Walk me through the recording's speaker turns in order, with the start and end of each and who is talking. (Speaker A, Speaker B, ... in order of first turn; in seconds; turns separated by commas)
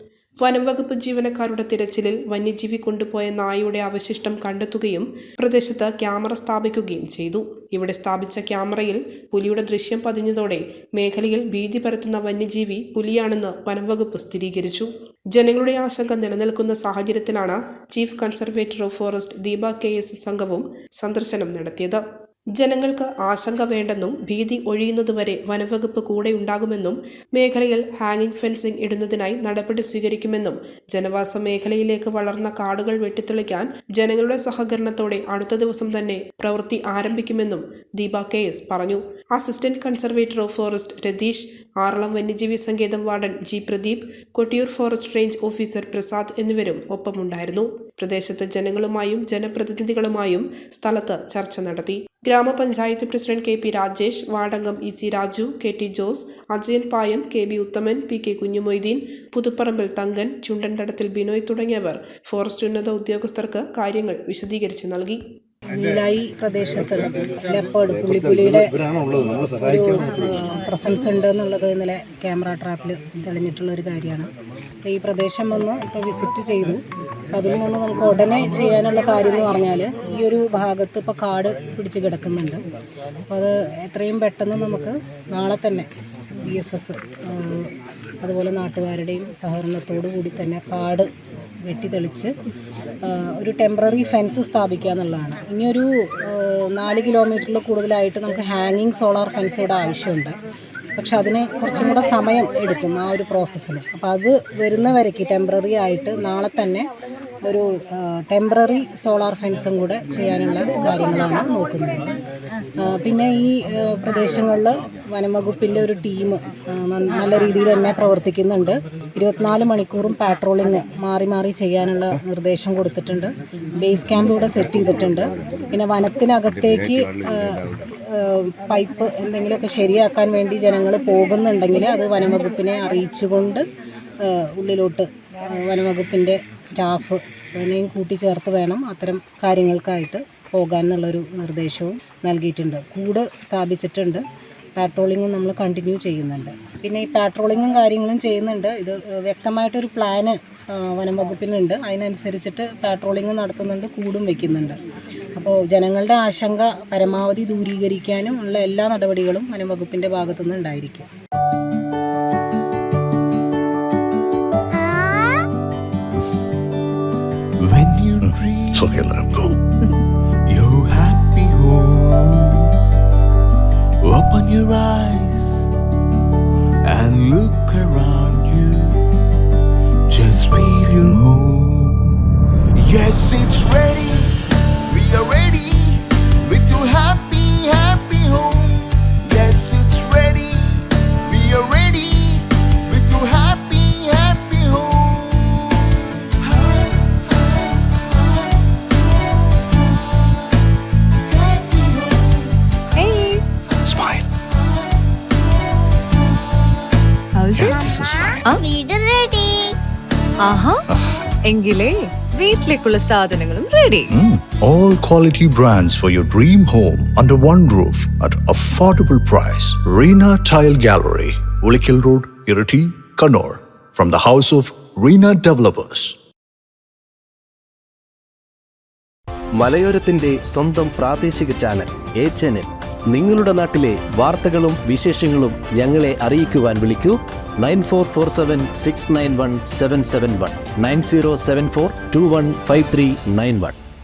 Speaker A: 0.4-22.0, Speaker A: 22.6-65.2, Speaker B: 65.7-68.7, Speaker B: 69.6-74.3, Speaker B: 74.8-76.8, Speaker B: 77.3-82.6, Speaker B: 83.2-85.9, Speaker B: 86.5-91.1, Speaker B: 91.6-92.3, Speaker B: 93.0-100.3, Speaker B: 101.0-106.9, Speaker B: 107.4-112.0, Speaker B: 112.8-133.6, Speaker B: 134.2-144.2, Speaker B: 144.8-154.8, Speaker B: 155.3-161.1, Speaker C: 164.7-165.4, Speaker D: 167.6-168.8, Speaker E: 168.2-169.6, Speaker D: 170.5-172.7, Speaker D: 174.0-175.6, Speaker D: 176.8-178.8, Speaker D: 180.1-181.9, Speaker D: 182.8-184.3, Speaker D: 184.9-190.6, Speaker D: 191.3-195.7, Speaker D: 201.4-202.2, Speaker F: 202.9-203.4, Speaker E: 203.8-204.3, Speaker F: 207.3-208.6, Speaker E: 207.5-208.0, Speaker C: 207.6-209.7, Speaker F: 210.4-210.8, Speaker F: 211.4-214.1, Speaker E: 214.1-226.2, Speaker G: 229.6-243.8